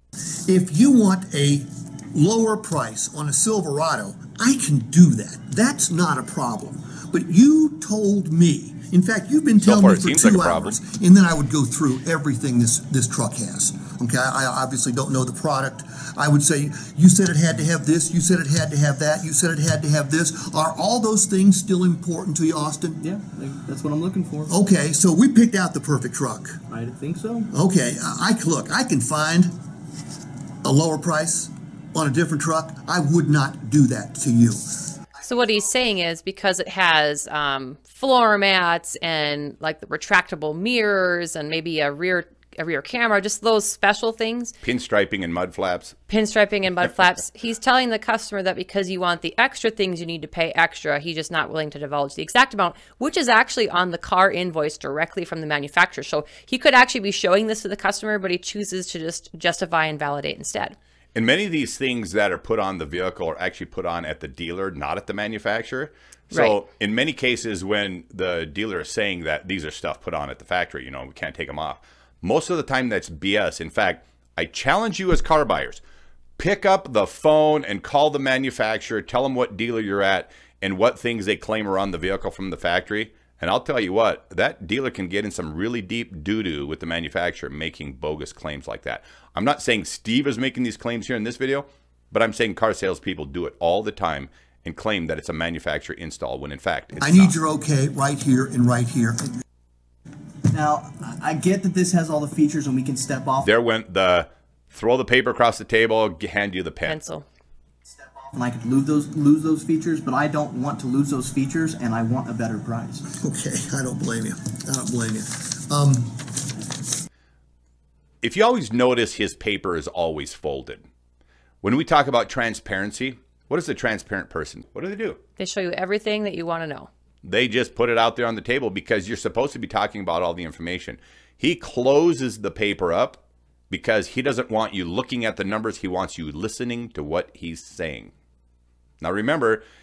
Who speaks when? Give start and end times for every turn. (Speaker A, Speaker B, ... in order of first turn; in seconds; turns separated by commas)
Speaker A: 0.5-23.0, Speaker B: 9.6-10.8, Speaker C: 23.0-24.5, Speaker A: 24.5-26.6, Speaker C: 26.7-27.5, Speaker A: 27.5-29.5, Speaker A: 30.6-34.9, Speaker D: 35.2-44.6, Speaker B: 44.6-46.0, Speaker D: 46.1-60.8, Speaker B: 61.1-75.8, Speaker B: 76.4-97.3, Speaker A: 97.0-99.3, Speaker C: 100.5-103.5, Speaker B: 103.4-107.0, Speaker D: 106.8-107.2, Speaker C: 107.9-113.1, Speaker A: 113.2-116.4, Speaker B: 118.2-120.8, Speaker B: 121.6-125.2, Speaker D: 125.4-126.9, Speaker B: 127.2-138.1, Speaker B: 139.0-139.6